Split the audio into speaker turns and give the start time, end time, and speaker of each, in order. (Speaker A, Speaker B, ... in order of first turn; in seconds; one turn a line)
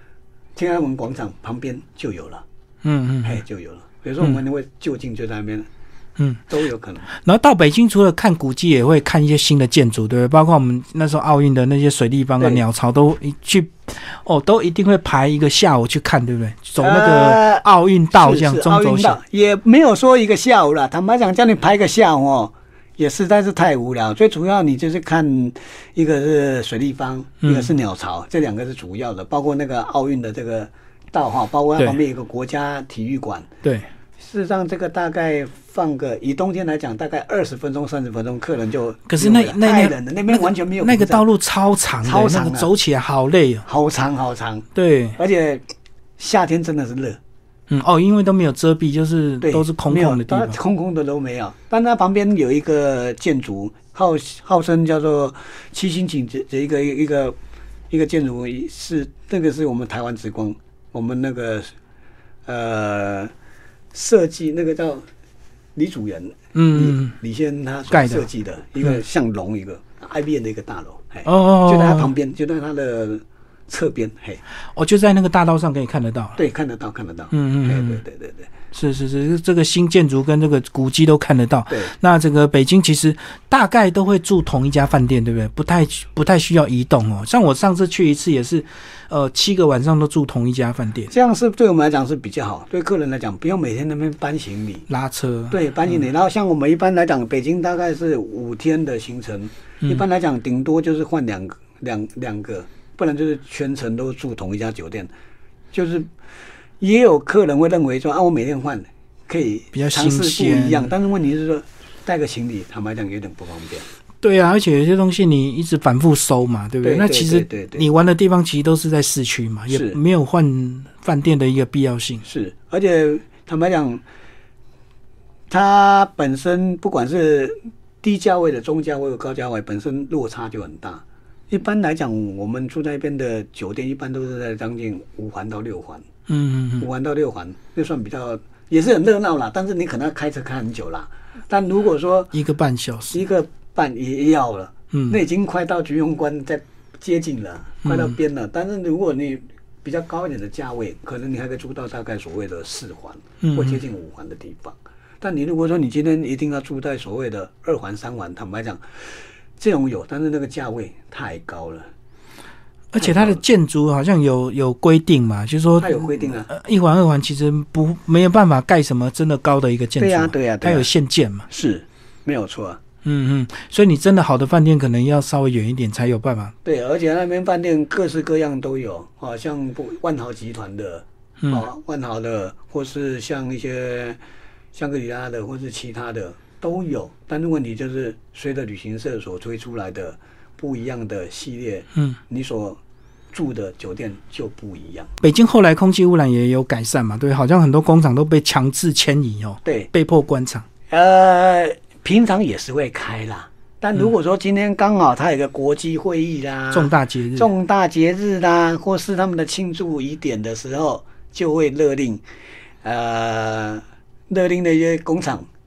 Speaker A: 0.6-2.4
Speaker B: 2.8-3.4
Speaker A: 3.2-5.7
Speaker A: 6.5-7.1
Speaker B: 7.1-19.2
Speaker A: 16.8-33.5
Speaker B: 27.4-27.7
Speaker A: 34.2-41.3
Speaker B: 39.1-43.6
Speaker A: 42.0-42.7
Speaker A: 43.7-44.7
Speaker B: 44.8-45.2
Speaker A: 45.2-45.6
Speaker A: 46.2-47.2
Speaker B: 47.7-50.6
Speaker A: 49.4-57.4
Speaker A: 57.9-61.7
Speaker A: 62.5-63.3
Speaker A: 63.9-65.0
Speaker A: 65.8-74.4
Speaker B: 66.5-67.2
Speaker B: 67.9-68.2
Speaker B: 71.2-72.1
Speaker B: 74.8-76.4
Speaker A: 76.4-78.5
Speaker B: 77.3-78.0
Speaker B: 78.7-91.1
Speaker A: 91.1-94.9
Speaker B: 94.9-95.6
Speaker A: 95.5-105.1
Speaker A: 105.7-106.1
Speaker A: 106.8-113.9
Speaker B: 109.7-110.9
Speaker B: 114.2-122.2
Speaker A: 116.8-117.9
Speaker A: 119.7-120.0
Speaker A: 122.2-124.0
Speaker A: 125.5-136.1
Speaker B: 136.3-136.9
Speaker A: 136.8-142.3
Speaker B: 142.3-143.2
Speaker A: 143.1-161.9
Speaker B: 144.9-145.2
Speaker B: 147.8-148.2
Speaker B: 153.4-153.8
Speaker B: 162.9-171.5
Speaker A: 163.0-163.4
Speaker A: 165.8-166.5
Speaker A: 170.0-170.9
Speaker A: 171.5-172.8
Speaker B: 173.0-176.6
Speaker A: 176.7-184.2
Speaker A: 184.7-192.8
Speaker A: 193.3-195.1
Speaker B: 195.2-200.7
Speaker A: 199.7-199.9
Speaker A: 200.9-212.2
Speaker B: 206.7-207.5
Speaker A: 212.8-215.5